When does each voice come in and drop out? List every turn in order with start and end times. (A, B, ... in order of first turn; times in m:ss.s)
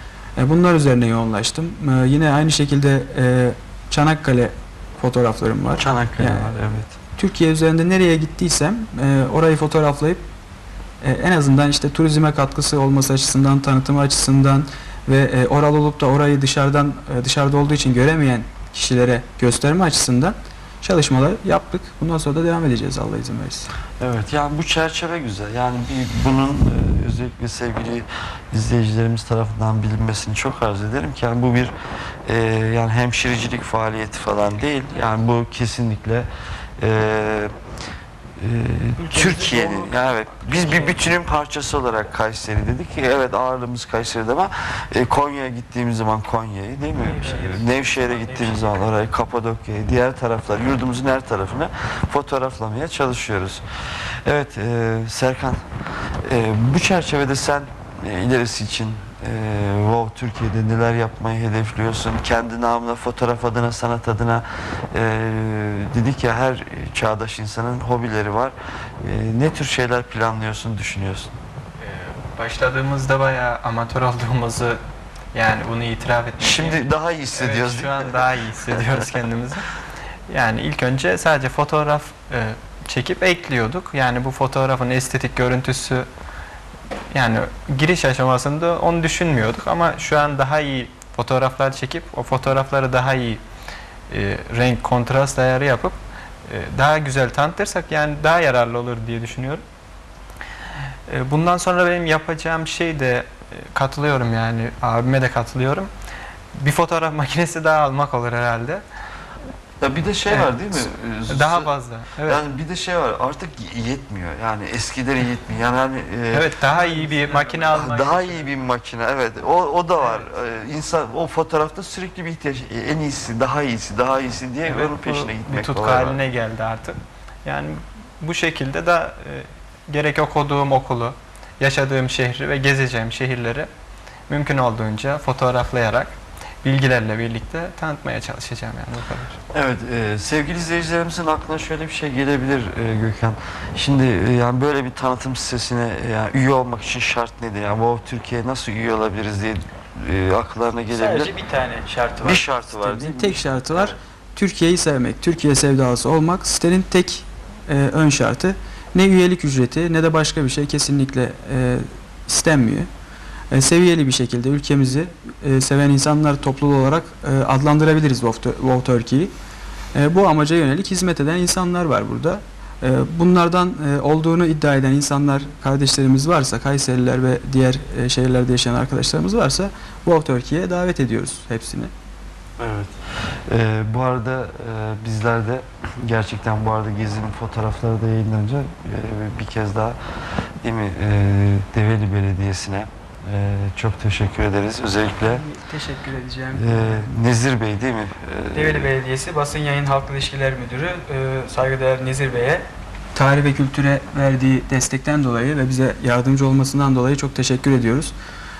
0:00.4-0:06.6 A
0:05.8-0:06.9 B
0:07.1-0:10.2 A
0:11.0-0:23.7 A
0:24.0-0:31.7 B
0:32.2-0:36.3 B
0:36.8-0:37.5 B
0:38.4-0:53.6 B
0:39.0-0:41.0 A
0:47.0-0:48.9 A
0:54.2-0:55.6 B
0:56.2-1:11.3 B
1:11.8-1:14.8 C
1:15.3-1:19.7 C
1:16.4-1:19.1 B
1:20.3-1:26.1 C
1:27.1-1:33.4 C
1:34.1-1:39.6 C
1:41.1-1:45.9 C
1:46.5-1:48.8 C
1:49.8-1:51.7 B
1:50.3-1:52.4 C
1:52.2-1:56.5 B
1:56.3-1:58.4 C
1:56.7-1:57.9 A
1:57.7-2:06.2 B
2:04.6-2:13.7 C
2:14.3-2:19.4 C
2:19.5-2:31.3 B
2:30.9-2:42.9 A
2:32.2-2:34.0 B
2:43.5-2:49.3 A
2:49.9-3:01.9 A
3:02.6-3:02.9 B
3:03.5-3:10.0 B
3:10.6-3:15.4 B
3:15.2-3:17.1 A
3:16.5-3:18.9 B
3:18.5-3:28.1 A